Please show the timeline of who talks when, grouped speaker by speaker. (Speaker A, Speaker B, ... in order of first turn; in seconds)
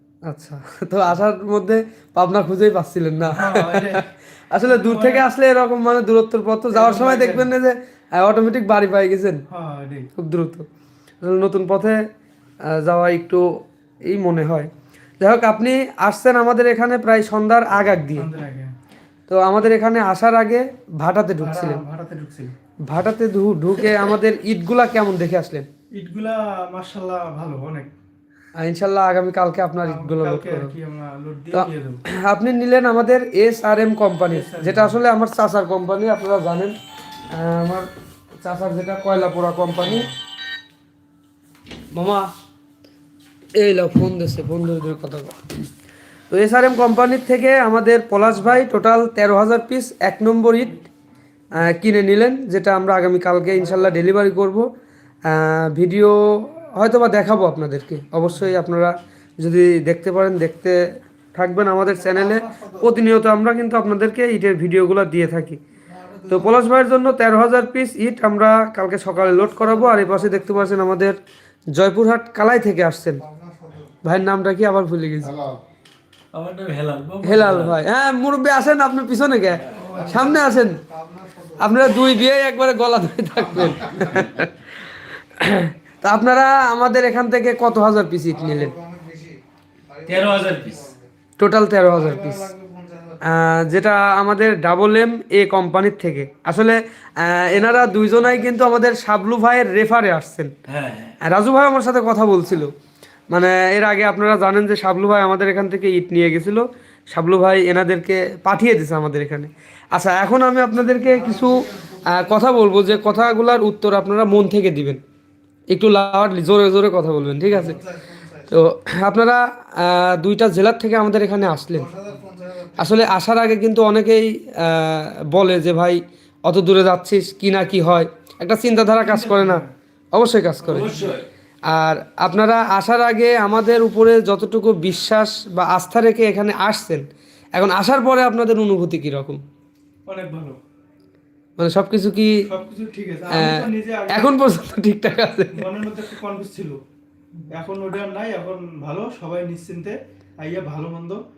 Speaker A: 0.2-4.0, 4.5-9.4, 10.2-10.7, 11.2-12.1, 12.7-13.5, 14.1-14.7, 15.2-18.3, 19.3-21.8, 22.9-25.7, 28.6-30.7, 31.5-36.8, 37.3-37.9, 38.4-40.1, 41.9-42.3, 43.6-45.4, 46.3-50.8, 51.6-54.7, 55.3-60.8, 61.3-65.6, 66.2-71.2, 71.7-73.2, 74.0-75.3, 77.2-80.8, 81.5-84.5, 85.4-88.8, 91.4-92.5, 93.2-100.5, 101.2-102.7, 103.3-115.0, 115.7-117.8, 118.4-121.9, 122.8-130.9, 131.7-139.4, 141.6-142.4, 143.3-145.8
Speaker B: 3.3-4.1, 4.6-5.3, 6.7-7.5, 9.5-10.1, 18.1-18.7, 21.4-22.6, 26.0-27.9, 29.8-32.0, 34.3-35.0, 39.8-40.1, 128.9-129.7, 130.6-131.2, 140.1-140.6, 142.5-144.4, 145.6-146.8, 147.6-151.2
Speaker C: 73.4-73.8, 75.2-75.6, 79.7-81.5, 83.5-84.3, 90.0-90.2
Speaker D: 76.3-77.8, 90.0-91.0, 100.7-101.2, 130.8-131.3